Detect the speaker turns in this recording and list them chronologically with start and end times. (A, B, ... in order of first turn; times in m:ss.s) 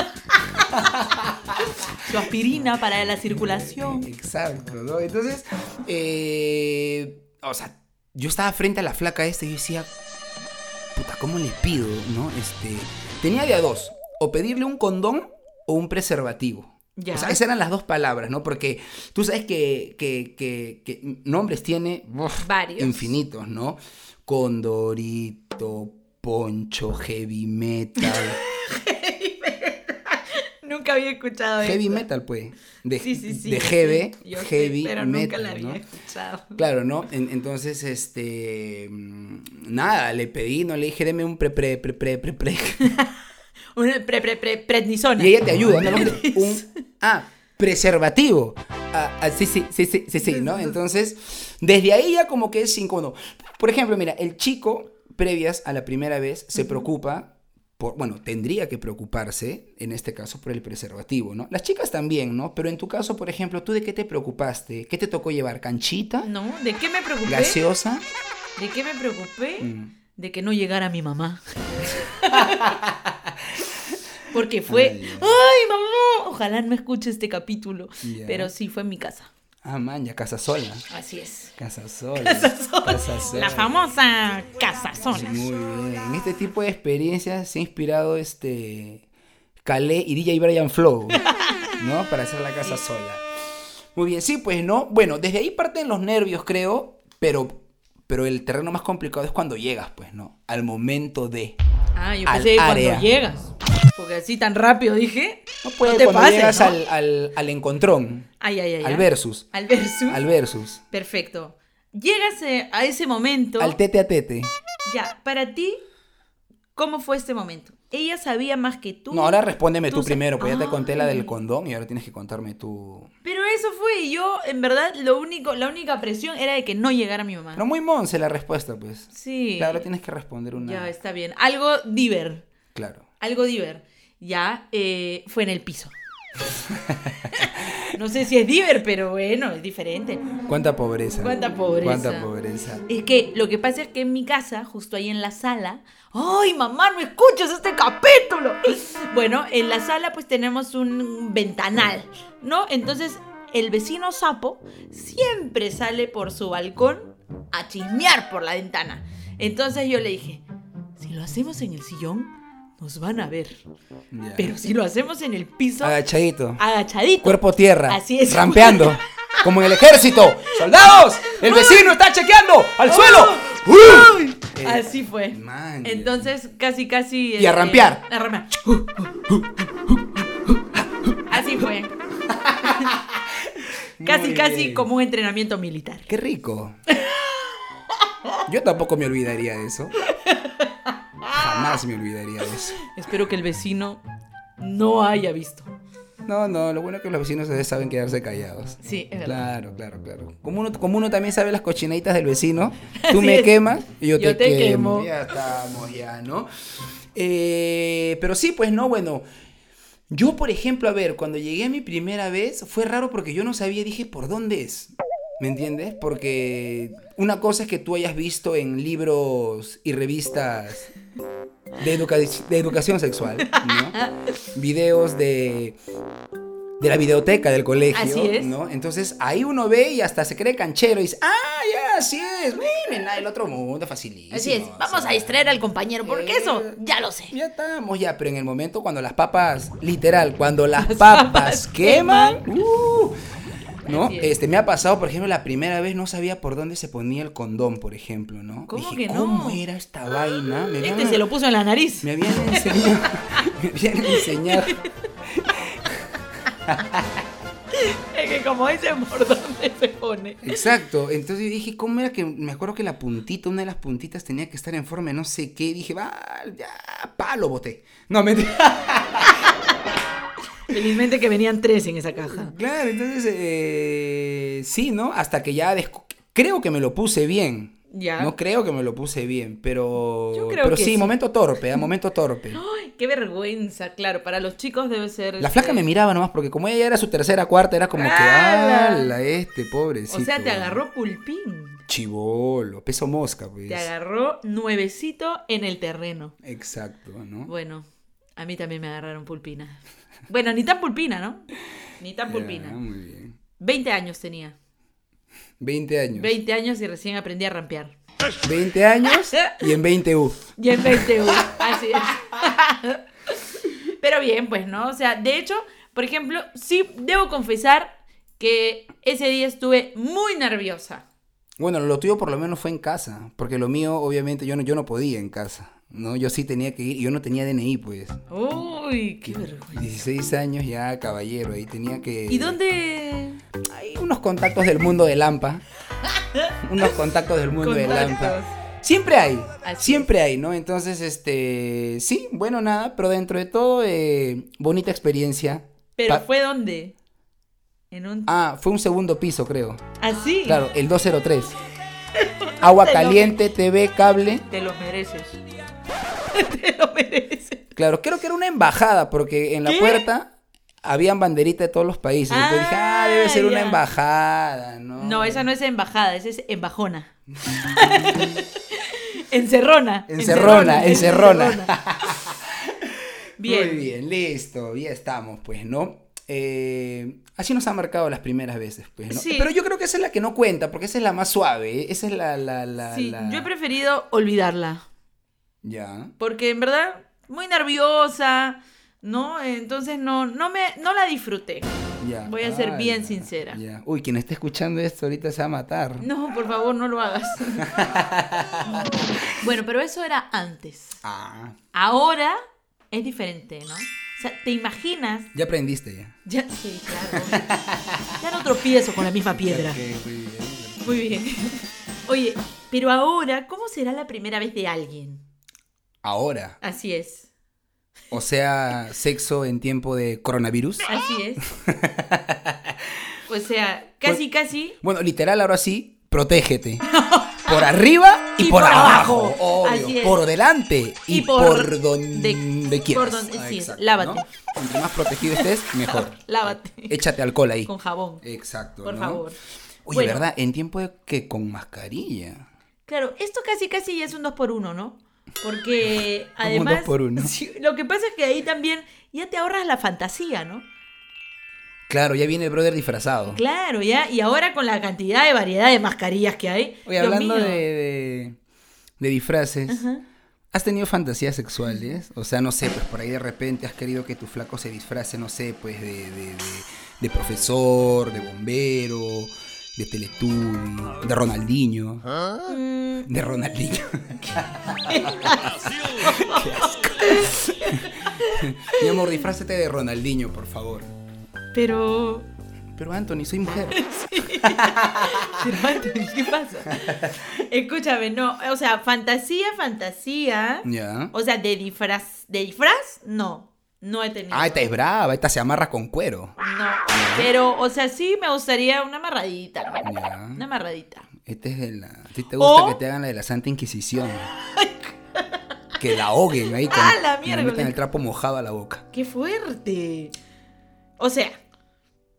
0:00.2-0:00.7 A
0:00.7-0:01.6 B
0:01.6-0:04.1 A
0:03.8-0:10.2 B
0:11.0-0:28.4 B
0:17.0-0:17.4 A
0:22.4-0:23.1 A
0:28.0-0:32.0 A
0:31.6-0:35.8 B
0:33.0-0:36.6 A
0:36.6-0:43.0 B
0:42.8-0:43.2 A
0:43.7-0:46.7 A
0:45.2-1:06.3 B
0:50.2-0:50.8 A
0:56.6-0:56.9 A
1:06.2-1:07.6 A
1:07.3-1:08.0 B
1:08.6-1:12.8 A
1:09.6-1:09.9 B
1:12.3-1:13.7 B
1:14.3-1:19.3 A
1:14.7-1:15.4 B
1:18.0-1:18.5 B
1:19.6-1:20.9 B
1:20.9-1:21.5 A
1:21.6-1:23.7 B
1:22.2-1:25.4 A
1:25.1-1:29.0 B
1:29.6-1:33.2 B
1:33.9-1:41.6 B
1:42.0-1:46.8 A
1:42.3-1:43.1 B
1:45.6-1:48.3 B
1:48.4-1:50.2 A
1:48.8-1:49.5 B
1:50.1-1:50.8 B
1:50.9-1:53.8 A
1:53.6-1:54.5 B
1:54.9-1:55.8 A
1:56.8-2:01.3 A
1:59.1-2:03.1 B
2:03.2-2:07.6 A
2:07.6-2:10.9 B
2:09.1-2:09.8 A
2:10.6-2:12.5 A
2:12.7-2:13.0 B
2:13.2-2:15.9 A
2:16.7-2:17.7 B
2:17.3-2:20.3 A
2:20.5-2:22.8 B
2:21.2-2:22.3 A
2:22.9-2:40.4 A
2:41.0-2:43.6 A
2:44.1-2:44.6 B
2:44.4-2:46.0 A
2:45.8-2:46.6 B
2:46.6-2:49.4 A
2:47.2-2:56.3 B
2:50.5-2:51.9 A
2:52.9-2:59.1 A
2:57.4-2:58.0 B
2:59.3-3:01.7 B
3:01.3-3:01.9 A
3:02.3-3:04.9 B
3:02.6-3:02.9 A
3:04.0-3:06.1 A
3:06.1-3:06.8 B
3:06.9-3:07.5 A
3:08.5-3:10.0 B
3:10.0-3:11.8 A
3:11.3-3:12.8 B
3:12.8-3:14.0 A
3:14.6-3:15.7 A
3:16.2-3:26.5 B
3:18.8-3:19.4 A
3:23.0-3:23.5 A
3:24.2-3:25.1 A
3:27.1-3:29.2 B
3:30.1-3:40.9 B
3:41.8-3:44.0 B
3:43.4-3:44.4 A
3:44.5-3:45.8 B
3:46.8-3:55.4 B
3:47.9-3:48.6 A
3:54.3-3:57.3 A
3:56.0-3:56.8 B
3:57.3-4:03.2 B
4:00.8-4:02.5 A
4:03.9-4:11.3 B
4:03.9-4:04.3 A
4:08.7-4:09.6 A
4:10.8-4:13.5 A
4:12.0-4:17.2 B
4:14.0-4:14.9 A
4:17.7-4:20.5 A
4:20.4-4:29.5 B
4:30.7-4:32.6 A
4:32.2-4:42.6 B
4:37.9-4:38.3 A
4:40.3-4:41.2 A
4:42.5-4:45.9 A
4:45.4-4:50.8 B
4:47.9-4:49.1 A
4:50.1-4:51.8 A
4:51.9-4:53.9 B
4:53.7-4:56.4 A
4:56.4-4:57.5 B
4:57.5-4:57.9 A
4:58.4-5:01.5 A
5:02.0-5:02.8 A
5:02.3-5:03.4 B
5:03.6-5:04.6 A
5:05.6-5:06.3 B
5:06.1-5:07.9 A
5:08.4-5:11.6 B
5:09.1-5:09.6 A
5:10.6-5:21.1 A
5:21.6-5:28.2 B
5:28.3-5:30.0 A
5:29.3-5:32.6 B
5:32.3-5:33.4 A
5:33.6-5:35.6 B
5:36.2-5:36.6 A
5:36.6-5:46.2 B
5:37.6-5:38.5 A
5:39.6-5:40.1 A
5:46.0-5:46.9 A
5:47.9-5:48.3 A
5:48.3-5:49.8 B
5:50.0-5:50.6 A
5:50.4-5:51.6 B
5:52.2-5:53.4 A
5:52.6-5:54.5 B
5:54.5-5:55.4 A
5:56.3-5:57.7 A
5:57.8-6:00.3 B
5:59.6-6:00.0 A
6:00.8-6:05.4 B
6:02.3-6:03.8 A
6:05.0-6:11.8 A
6:10.1-6:23.5 B
6:13.4-6:13.9 A
6:19.1-6:19.5 A
6:22.8-6:24.8 A
6:25.6-6:26.1 B
6:26.2-6:31.7 A
6:32.0-6:36.1 B
6:32.3-6:33.6 A
6:36.0-6:37.8 A
6:37.6-6:39.2 B
6:38.6-6:41.0 A
6:41.0-6:41.6 B
6:41.7-6:42.4 A
6:42.9-6:45.3 A
6:45.3-6:46.2 B
6:46.3-6:47.4 A
6:47.1-6:48.2 B
6:48.2-6:49.8 A
6:49.4-6:51.2 B
6:50.8-6:55.2 A
6:56.0-6:56.6 B
6:56.6-6:57.3 A
6:58.1-7:00.9 B
7:00.9-7:01.5 A
7:01.5-7:03.0 B
7:03.3-7:04.8 A
7:04.8-7:06.8 B
7:06.8-7:07.6 A
7:07.4-7:17.7 B
7:08.4-7:10.2 A
7:11.1-7:14.2 A
7:15.3-7:17.0 A
7:17.6-7:18.2 A
7:18.2-7:19.2 B
7:18.8-7:19.4 A
7:19.9-7:22.5 B
7:19.9-7:20.2 A
7:22.9-7:30.6 A
7:26.4-7:27.3 B
7:31.9-7:33.4 B
7:33.3-7:37.6 A
7:36.9-7:38.4 B
7:39.0-7:39.9 B
7:39.7-7:40.0 A
7:40.5-7:52.1 B
7:52.4-7:53.1 A
7:53.1-8:00.9 B
7:54.8-7:59.1 A
8:01.5-8:02.3 A
8:02.8-8:05.5 B
8:03.7-8:14.7 A
8:06.7-8:07.2 B
8:10.6-8:11.1 B
8:14.3-8:16.4 B
8:16.4-8:21.1 A
8:16.9-8:17.3 B
8:19.8-8:20.4 B
8:21.2-8:24.3 B
8:22.4-8:22.8 A
8:24.5-8:25.4 A
8:25.8-8:28.8 B
8:26.5-8:27.8 A
8:28.9-8:30.1 A
8:31.0-8:31.4 A